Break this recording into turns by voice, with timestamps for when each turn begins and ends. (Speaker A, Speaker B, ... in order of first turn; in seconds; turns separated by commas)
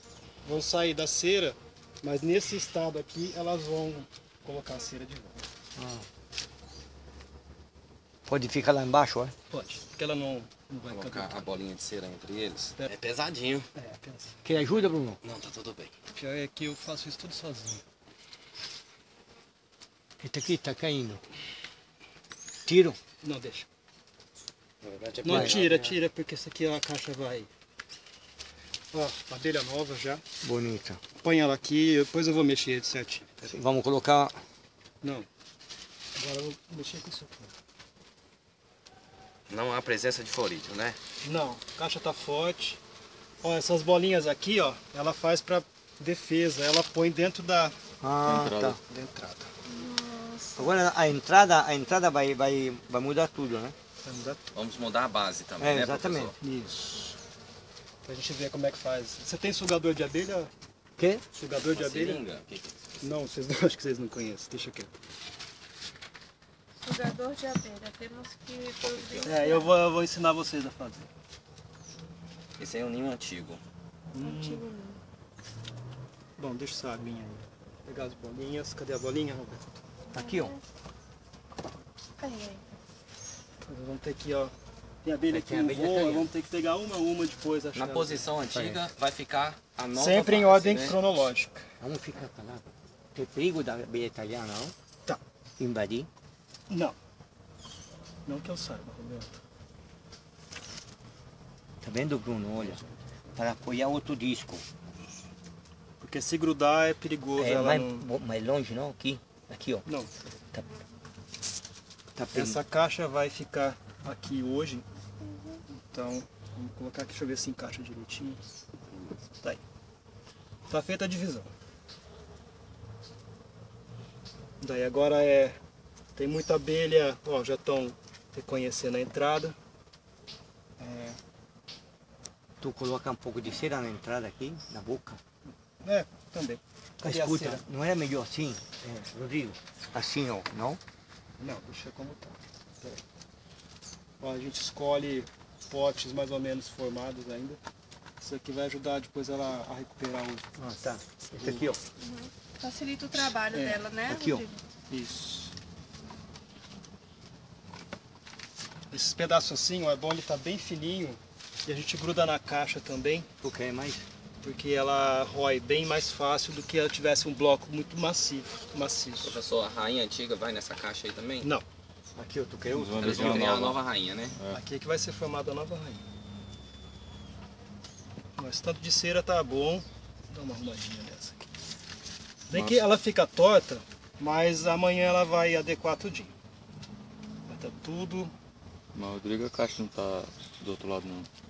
Speaker A: 0.4-5.4, Speaker B: 5.8-6.0, Speaker B: 8.2-9.3, Speaker A: 9.5-11.5, Speaker C: 10.9-13.7, Speaker A: 13.7-14.3, Speaker B: 14.4-15.2, Speaker C: 15.2-15.9, Speaker A: 16.1-17.8, Speaker B: 20.2-21.2, Speaker B: 22.6-23.0, Speaker A: 23.2-23.7, Speaker C: 24.8-25.9, Speaker A: 25.2-27.5, Speaker B: 25.3-25.6, Speaker A: 28.9-30.2, Speaker B: 30.4-31.0, Speaker A: 31.2-33.5, Speaker B: 33.4-34.4, Speaker A: 35.0-35.3, Speaker A: 36.1-37.5, Speaker C: 39.5-41.0, Speaker A: 41.2-42.8, Speaker A: 43.4-47.7, Speaker B: 48.0-48.8, Speaker D: 48.2-48.8, Speaker A: 48.9-49.5, Speaker E: 49.6-50.8, Speaker B: 50.5-53.7, Speaker A: 54.0-54.5, Speaker C: 54.5-56.4, Speaker B: 55.6-56.3, Speaker A: 56.4-57.1, Speaker A: 58.0-60.5, Speaker B: 61.0-61.2, Speaker A: 61.3-62.2, Speaker C: 61.7-62.8, Speaker A: 63.0-64.9, Speaker E: 66.8-69.7, Speaker C: 68.8-69.3, Speaker A: 69.2-71.1, Speaker C: 72.6-73.6, Speaker A: 74.1-74.6, Speaker E: 74.2-75.0, Speaker A: 76.4-79.7, Speaker B: 80.1-80.5, Speaker E: 80.1-80.6, Speaker E: 82.2-82.6, Speaker A: 83.7-88.3, Speaker B: 85.3-86.3, Speaker C: 87.7-91.0, Speaker B: 88.5-88.8, Speaker A: 89.9-91.7, Speaker B: 91.8-94.7, Speaker B: 95.6-96.1, Speaker A: 96.7-97.0, Speaker A: 98.2-99.4, Speaker B: 101.8-102.8, Speaker B: 103.3-104.6, Speaker A: 106.0-108.0, Speaker B: 107.4-109.8, Speaker A: 109.8-110.1, Speaker B: 112.1-112.6, Speaker A: 112.3-114.8, Speaker E: 115.2-115.6, Speaker A: 115.9-118.4, Speaker A: 120.7-121.5, Speaker A: 124.6-125.6, Speaker A: 126.2-129.5, Speaker A: 130.8-131.2, Speaker B: 132.6-135.2, Speaker A: 135.8-137.6, Speaker B: 137.0-140.8, Speaker A: 141.4-143.0, Speaker A: 144.2-147.6, Speaker A: 148.2-150.4, Speaker B: 150.6-151.8, Speaker A: 151.4-151.8, Speaker E: 152.0-154.6, Speaker A: 153.1-153.8, Speaker B: 154.1-154.4, Speaker A: 154.9-155.5, Speaker A: 158.9-163.3, Speaker B: 163.4-164.0, Speaker A: 164.4-169.4, Speaker C: 169.2-171.5, Speaker B: 172.1-173.5, Speaker D: 172.6-174.6, Speaker C: 173.0-174.3, Speaker A: 174.5-176.0, Speaker A: 178.4-181.5, Speaker A: 182.5-186.3, Speaker A: 187.5-188.3, Speaker D: 188.9-191.3